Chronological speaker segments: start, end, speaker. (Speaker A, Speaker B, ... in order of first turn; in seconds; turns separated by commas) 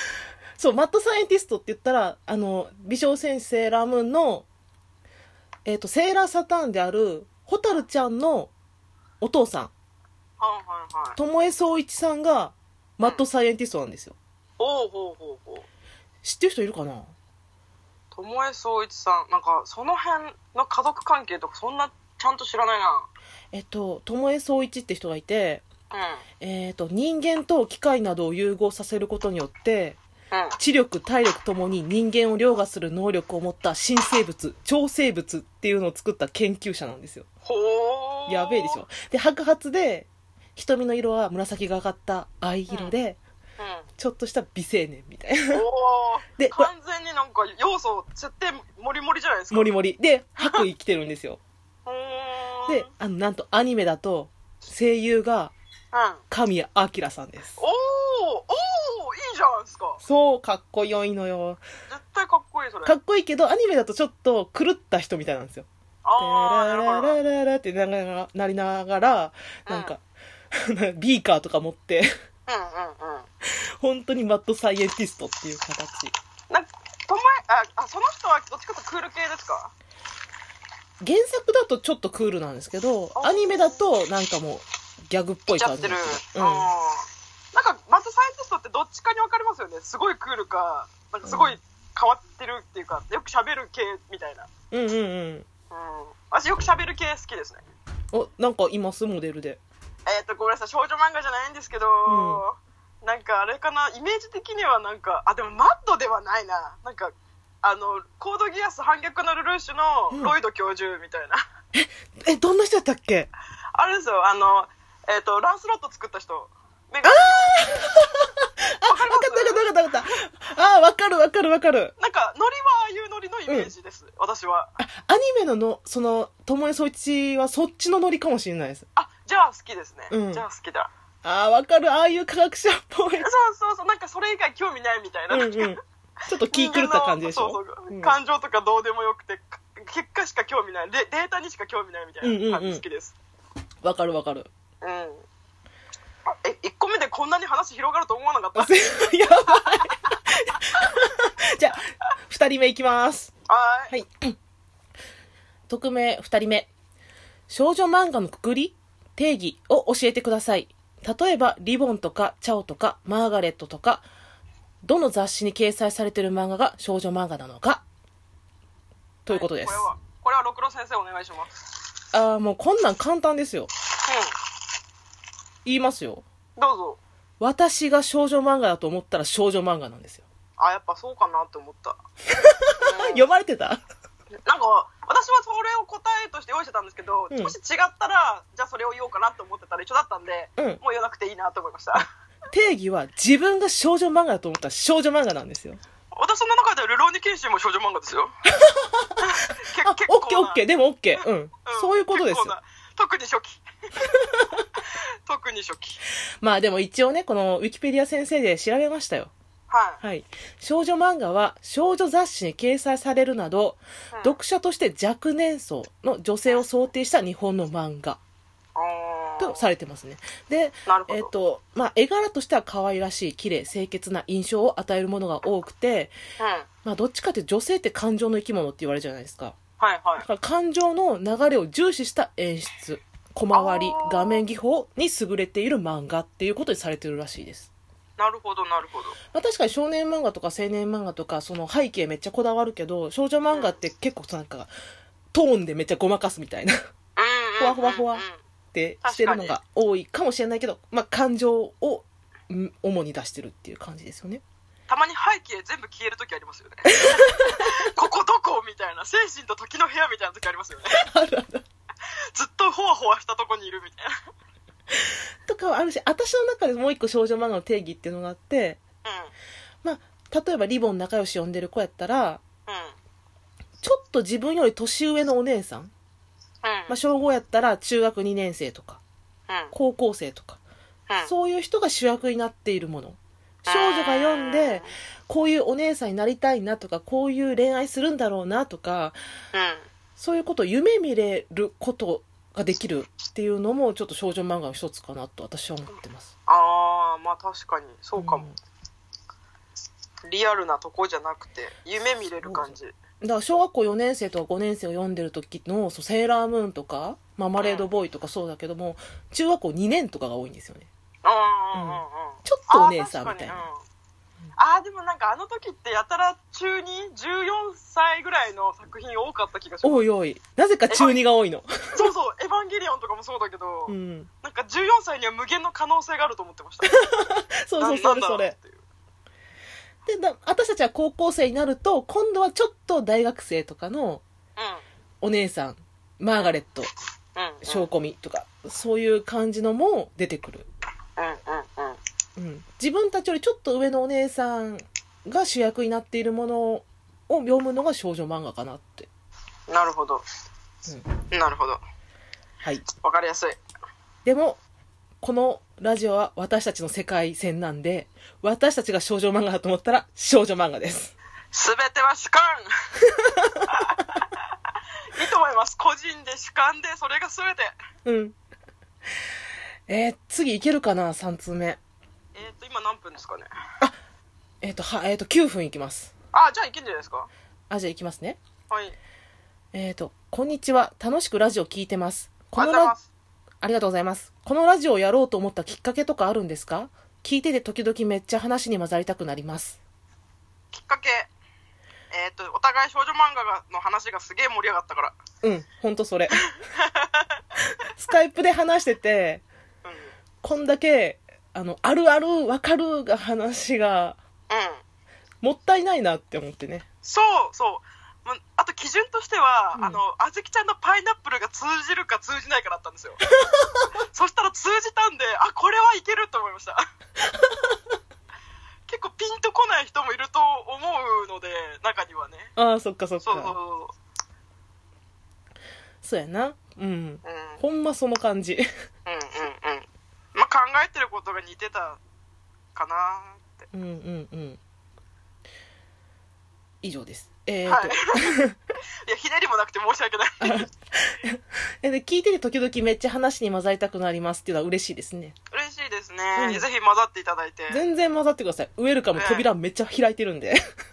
Speaker A: 0.6-4.5, Speaker A: 5.6-8.5, Speaker A: 9.2-9.7, Speaker B: 10.4-11.2, Speaker A: 11.2-14.2, Speaker B: 14.6-15.7, Speaker A: 16.2-17.1, Speaker B: 18.1-23.1, Speaker A: 23.5-25.6, Speaker B: 25.9-26.2, Speaker A: 26.4-30.0, Speaker B: 30.3-30.6, Speaker A: 30.6-37.3, Speaker B: 37.4-38.8, Speaker A: 38.3-43.2, Speaker B: 43.6-43.9, Speaker A: 44.0-45.6, Speaker B: 45.5-49.7, Speaker A: 46.4-46.7, Speaker A: 49.5-51.4, Speaker B: 51.9-52.9, Speaker A: 52.7-55.5, Speaker B: 55.9-56.2, Speaker A: 56.3-57.6, Speaker B: 57.6-60.0, Speaker A: 60.0-61.6, Speaker B: 61.9-62.9, Speaker A: 62.8-65.7, Speaker B: 66.0-67.2, Speaker A: 66.2-70.0, Speaker B: 69.7-69.9, Speaker A: 70.5-72.1, Speaker B: 72.5-73.3, Speaker A: 73.8-76.1, Speaker B: 76.5-79.7, Speaker A: 81.0-86.7, Speaker B: 83.2-83.8, Speaker B: 85.5-94.5, Speaker A: 91.2-91.6, Speaker A: 94.7-95.5, Speaker B: 95.7-97.6, Speaker A: 98.1-99.6, Speaker B: 100.0-111.4, Speaker A: 102.1-102.4, Speaker A: 110.1-110.3, Speaker A: 111.7-113.3, Speaker B: 113.7-117.8, Speaker A: 117.0-121.9, Speaker B: 118.8-119.7, Speaker B: 122.0-124.7, Speaker A: 124.8-128.8, Speaker B: 128.9-130.9, Speaker A: 130.1-130.4, Speaker A: 131.2-133.3, Speaker B: 133.2-135.8, Speaker A: 135.3-138.2, Speaker B: 136.5-143.1, Speaker A: 142.2-142.8, Speaker A: 143.8-144.5, Speaker B: 144.8-145.2, Speaker B: 146.4-148.7, Speaker A: 148.5-153.3, Speaker B: 149.5-149.9, Speaker B: 153.5-153.9, Speaker A: 153.9-154.3, Speaker A: 155.7-156.7, Speaker A: 157.5-164.1, Speaker A: 164.8-167.8, Speaker A: 169.2-169.9, Speaker B: 169.3-171.6, Speaker A: 172.1-173.7, Speaker B: 174.0-174.3, Speaker A: 175.6-176.2, Speaker B: 176.6-177.0, Speaker A: 177.4-180.2, Speaker B: 180.6-182.0, Speaker A: 182.4-183.8, Speaker B: 182.8-183.2, Speaker B: 184.4-192.1, Speaker A: 187.3-187.6, Speaker A: 192.5-195.8, Speaker B: 196.1-198.3, Speaker A: 198.6-199.1, Speaker B: 199.2-200.6, Speaker A: 199.8-202.5, Speaker B: 201.2-203.6, Speaker B: 205.2-206.0, Speaker A: 206.4-209.3, Speaker B: 209.7-210.0, Speaker A: 210.0-218.2, Speaker B: 218.7-219.6, Speaker A: 219.4-226.1, Speaker B: 220.8-221.3, Speaker B: 226.4-226.7, Speaker A: 226.8-229.6, Speaker B: 229.8-230.2, Speaker A: 230.2-237.7, Speaker B: 233.5-234.4, Speaker B: 238.2-239.2, Speaker A: 239.3-244.7, Speaker A: 245.3-246.7, Speaker B: 247.2-248.4, Speaker A: 247.6-254.4, Speaker B: 249.0-249.6, Speaker B: 254.9-261.0, Speaker A: 260.9-261.6, Speaker B: 262.3-264.1, Speaker A: 265.4-268.8, Speaker B: 269.0-269.3, Speaker A: 269.8-272.4, Speaker B: 272.7-272.9, Speaker A: 273.8-275.9, Speaker B: 276.6-276.9, Speaker A: 276.9-279.0, Speaker A: 279.7-280.6, Speaker A: 281.2-289.2, Speaker B: 283.6-284.9, Speaker B: 289.5-289.9, Speaker A: 290.2-296.3, Speaker B: 296.5-298.5, Speaker A: 298.2-298.6, Speaker B: 300.2-302.9, Speaker A: 302.4-310.9, Speaker B: 307.6-307.9, Speaker B: 311.2-313.8, Speaker A: 311.7-313.6, Speaker B: 314.6-320.0, Speaker A: 319.8-322.1, Speaker B: 320.9-321.1, Speaker B: 321.9-327.1, Speaker A: 323.9-324.3, Speaker A: 326.8-328.6, Speaker B: 327.8-328.8, Speaker A: 330.1-334.2, Speaker B: 334.6-334.8, Speaker A: 335.2-336.9, Speaker B: 337.4-337.9, Speaker A: 337.6-340.7, Speaker B: 341.2-342.0, Speaker A: 342.4-349.1, Speaker B: 349.7-350.2, Speaker B: 351.3-351.8, Speaker B: 353.0-353.6, Speaker A: 354.2-354.6, Speaker A: 355.2-361.1, Speaker B: 361.5-362.7, Speaker A: 363.1-363.6, Speaker B: 363.7-364.2, Speaker B: 365.1-367.7, Speaker A: 368.0-368.4, Speaker A: 369.9-371.8, Speaker B: 372.3-373.5, Speaker A: 374.6-376.1, Speaker B: 376.3-377.3, Speaker A: 377.7-378.4, Speaker B: 378.7-378.9, Speaker A: 379.7-382.9, Speaker B: 382.6-383.0, Speaker A: 383.6-389.8, Speaker B: 390.7-391.3, Speaker B: 392.1-395.1, Speaker A: 395.4-396.4, Speaker B: 396.4-397.2, Speaker A: 397.9-399.4, Speaker B: 399.8-400.1, Speaker A: 400.4-404.2, Speaker B: 404.5-404.8, Speaker A: 405.4-406.9, Speaker B: 407.0-413.2, Speaker A: 413.5-413.8, Speaker B: 414.1-416.8, Speaker B: 418.9-422.5, Speaker A: 422.6-423.6, Speaker B: 423.2-423.9, Speaker A: 426.0-428.7, Speaker B: 427.2-427.6, Speaker B: 429.1-432.0, Speaker B: 432.7-433.6, Speaker A: 433.7-434.6, Speaker A: 436.8-438.6, Speaker B: 437.6-438.4, Speaker B: 439.1-440.6, Speaker A: 440.4-445.4, Speaker B: 445.5-447.8, Speaker A: 446.4-446.6, Speaker A: 447.7-450.6, Speaker B: 449.1-449.5